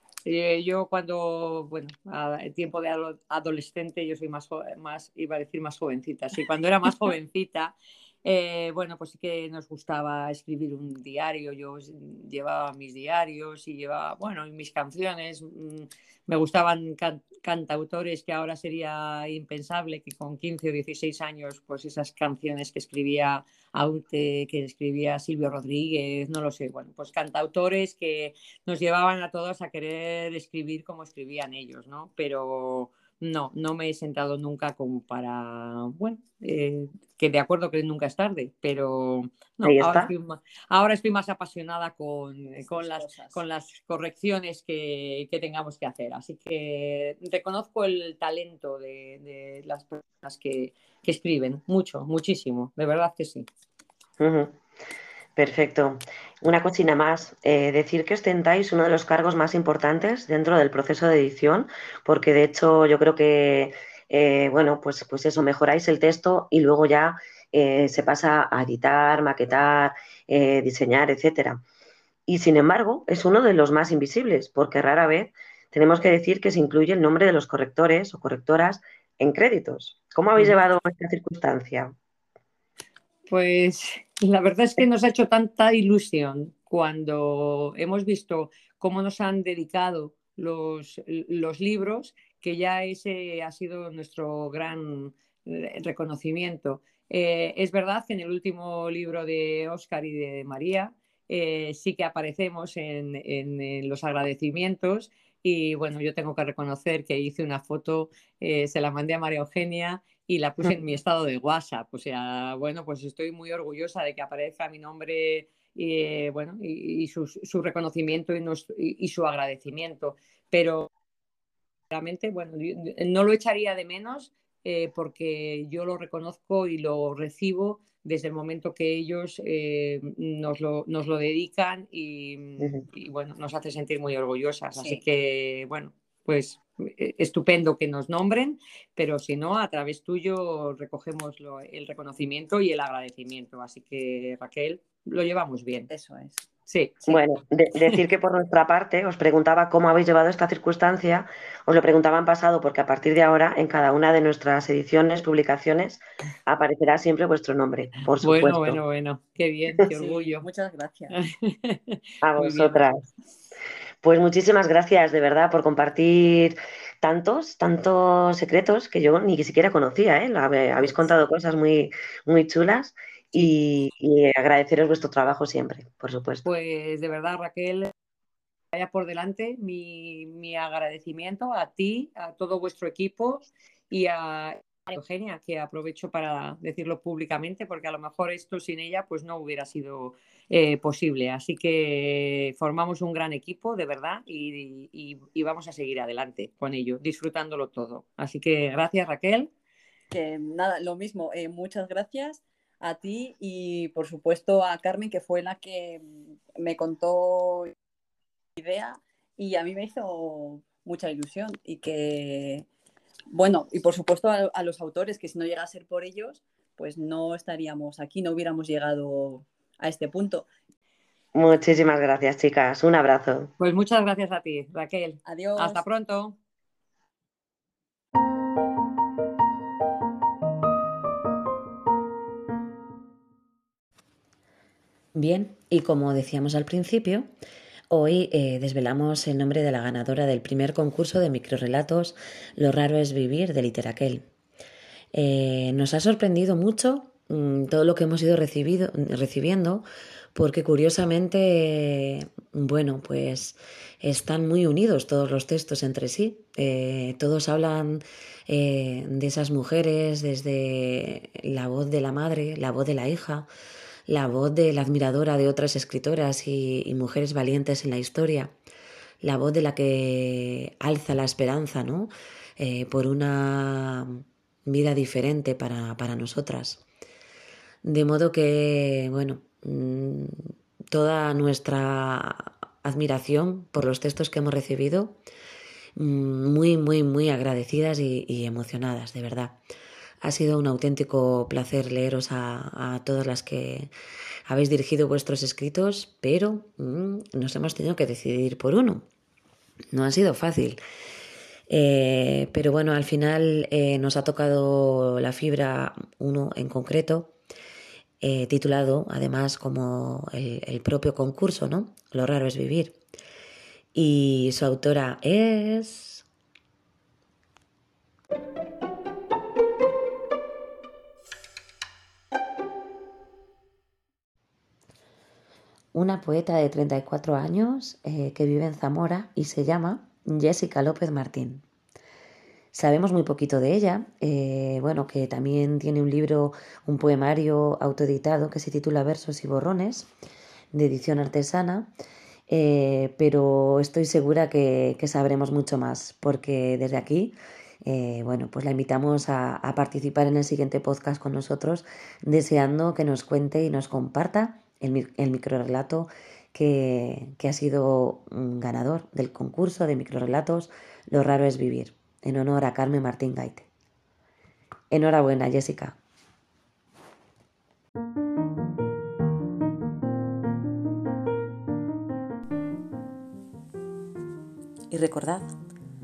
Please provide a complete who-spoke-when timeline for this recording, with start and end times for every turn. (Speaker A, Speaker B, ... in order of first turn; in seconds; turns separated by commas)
Speaker A: 0.2-53.5, Speaker B: 39.6-40.1, Speaker C: 42.7-43.4, Speaker B: 54.2-54.6, Speaker B: 55.4-71.6, Speaker B: 72.3-81.9, Speaker A: 83.3-120.9, Speaker A: 121.9-145.9, Speaker C: 134.8-135.0, Speaker C: 145.9-146.4, Speaker A: 146.7-147.0, Speaker B: 147.1-158.8, Speaker A: 158.2-160.4, Speaker C: 159.9-161.1, Speaker A: 161.1-162.8, Speaker B: 162.2-163.1, Speaker B: 164.0-176.5, Speaker A: 176.4-177.9, Speaker A: 178.7-199.5, Speaker C: 200.1-207.7, Speaker C: 208.6-212.7, Speaker C: 213.3-220.5, Speaker B: 221.3-223.5, Speaker A: 223.6-226.4, Speaker C: 225.2-225.8, Speaker D: 235.1-237.3, Speaker D: 237.9-244.2, Speaker D: 245.1-263.5, Speaker D: 264.1-268.5, Speaker D: 269.2-276.8, Speaker D: 277.8-285.2, Speaker D: 285.9-289.6, Speaker D: 290.2-293.9, Speaker D: 294.5-299.0, Speaker D: 299.9-300.8, Speaker D: 301.7-307.3, Speaker D: 308.2-313.0, Speaker D: 313.9-316.2, Speaker D: 325.9-331.6, Speaker D: 332.7-340.1, Speaker D: 340.7-341.9, Speaker D: 342.5-363.7, Speaker D: 364.9-366.0, Speaker D: 374.9-375.5